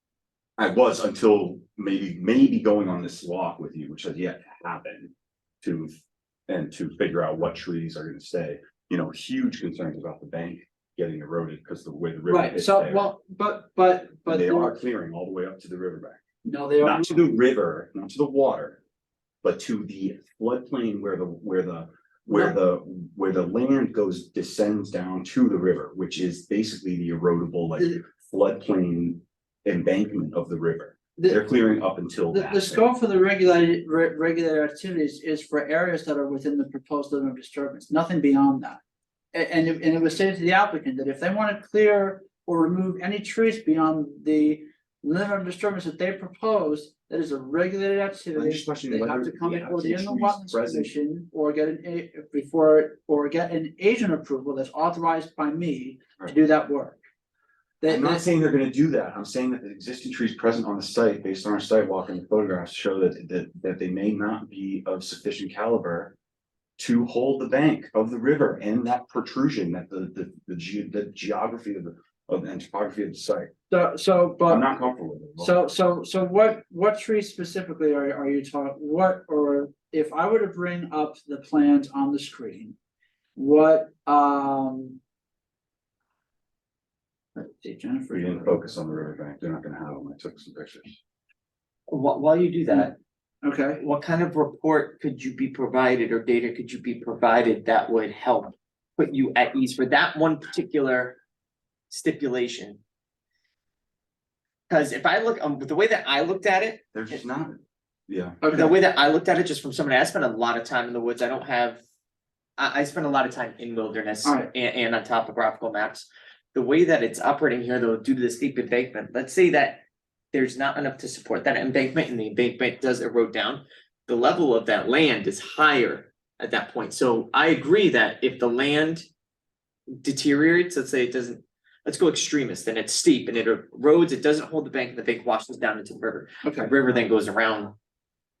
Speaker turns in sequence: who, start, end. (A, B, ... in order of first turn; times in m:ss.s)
0:00.6-0:05.9 A
0:06.5-0:13.1 A
0:12.3-0:14.8 B
0:14.3-0:16.2 A
0:16.4-0:17.3 B
0:16.8-0:18.8 A
0:19.4-0:32.8 A
0:32.3-0:38.8 B
0:39.3-0:57.0 B
0:48.3-0:50.9 A
0:57.8-0:58.2 B
0:57.9-1:06.1 A
1:06.8-1:13.5 A
1:13.7-1:14.6 B
1:14.5-1:15.6 A
1:15.4-1:22.8 B
1:23.4-1:25.0 B
1:27.4-1:28.7 B
1:28.1-1:31.0 A
1:31.9-1:33.0 C
1:33.4-1:33.8 B
1:33.8-1:41.2 C
1:41.9-1:42.8 C
1:44.7-1:47.2 C
1:46.9-1:47.5 A
1:48.1-1:48.4 A
1:48.4-1:48.7 B
1:48.5-1:51.8 C
1:52.6-2:09.1 C
1:54.2-1:54.5 B
2:10.0-2:17.7 C
2:16.4-2:16.7 B